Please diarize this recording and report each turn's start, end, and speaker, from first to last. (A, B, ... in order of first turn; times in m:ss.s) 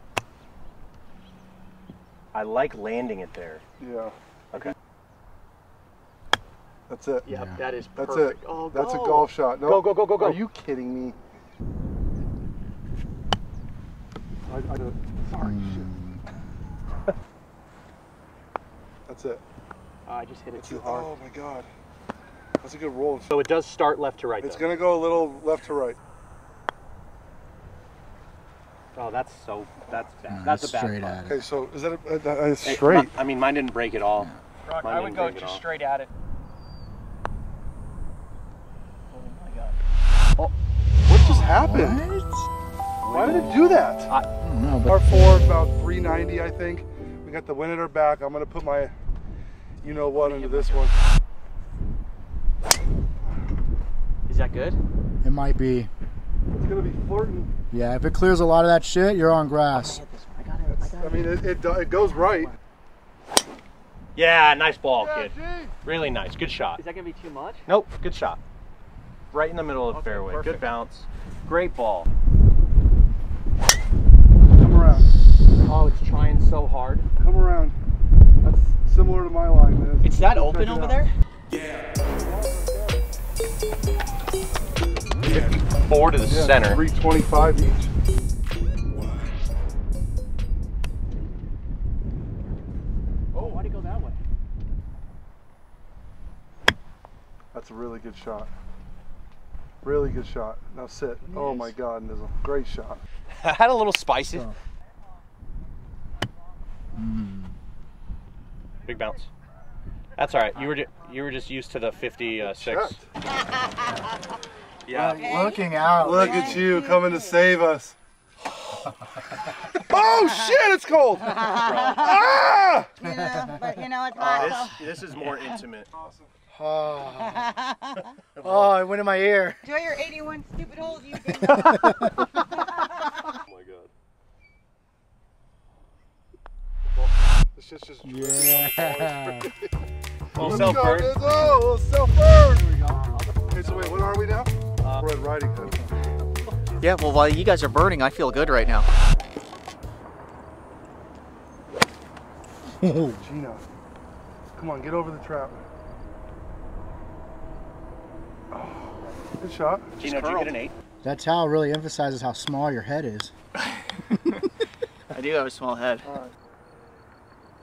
0:02.3-0:03.6 A
0:03.8-0:04.1 B
0:06.9-0:07.3 B
0:07.3-0:09.3 C
0:07.3-0:07.6 D
0:08.0-0:11.2 B
0:09.6-0:10.4 A
0:14.5-0:15.9 B
0:15.4-0:16.2 D
0:19.1-0:19.4 B
0:20.1-0:21.1 C
0:20.6-0:21.7 B
0:22.6-0:23.3 B
0:23.3-0:24.7 A
0:24.4-0:26.0 B
0:29.0-0:31.2 A
0:30.3-0:31.5 D
0:31.3-0:33.1 B
0:32.6-0:35.6 A
0:34.6-0:36.1 C
0:39.1-0:39.8 C
0:41.0-0:42.0 B
0:41.1-0:41.5 C
0:41.6-0:42.5 D
0:43.0-0:44.3 A
0:43.1-0:44.1 B
0:44.4-0:45.4 D
0:44.9-0:48.9 B
0:49.8-0:51.0 B
0:50.2-0:50.9 C
0:54.3-0:54.8 C
0:55.2-0:55.9 D
0:56.5-0:57.5 B
0:57.7-1:00.0 D
0:59.7-1:02.6 C
1:00.8-1:02.5 B
1:04.2-1:06.8 A
1:04.9-1:05.7 B
1:06.8-1:07.7 C
1:07.7-1:08.4 A
1:09.3-1:12.1 A
1:09.9-1:10.7 C
1:14.6-1:15.1 B
1:15.7-1:17.1 A
1:17.2-1:17.8 B
1:18.4-1:21.0 B
1:20.0-1:21.1 C
1:21.5-1:21.8 A
1:22.1-1:23.1 B
1:25.3-1:26.8 A
1:26.2-1:27.9 B
1:33.3-1:34.2 C
1:37.5-1:38.5 B
1:39.8-1:43.0 B
1:41.2-1:41.8 C
1:43.3-1:44.5 A
1:47.0-1:47.6 D
1:48.9-1:49.3 A
1:50.2-1:53.0 A
1:52.4-1:53.1 B
1:53.6-1:54.0 E
1:54.9-1:55.4 A
1:54.9-1:56.8 D
1:55.0-1:57.4 E
1:56.0-1:58.0 B
1:59.9-2:02.9 B
2:00.0-2:00.6 E
2:01.2-2:02.3 E
2:01.5-2:02.2 A
2:03.0-2:04.9 E
2:03.1-2:03.9 D
2:04.2-2:05.9 A
2:05.9-2:06.3 B
2:06.5-2:07.6 D
2:07.2-2:08.0 E
2:08.4-2:08.8 A
2:08.4-2:09.7 D
2:09.6-2:13.3 E
2:11.4-2:12.3 D
2:13.5-2:13.9 A
2:17.6-2:19.6 B
2:18.0-2:19.5 D
2:20.3-2:21.2 A
2:20.4-2:22.7 B
2:20.4-2:20.9 D
2:22.5-2:23.4 C
2:23.5-2:26.0 B
2:24.8-2:25.1 A
2:26.8-2:28.9 C
2:32.7-2:33.2 D
2:33.2-2:33.6 B
2:34.6-2:35.7 B
2:38.5-2:39.9 B
2:40.0-2:40.7 A
2:40.0-2:40.6 C
2:41.0-2:43.3 D
2:43.6-2:44.4 C
2:45.1-2:46.1 C
2:46.1-2:46.3 B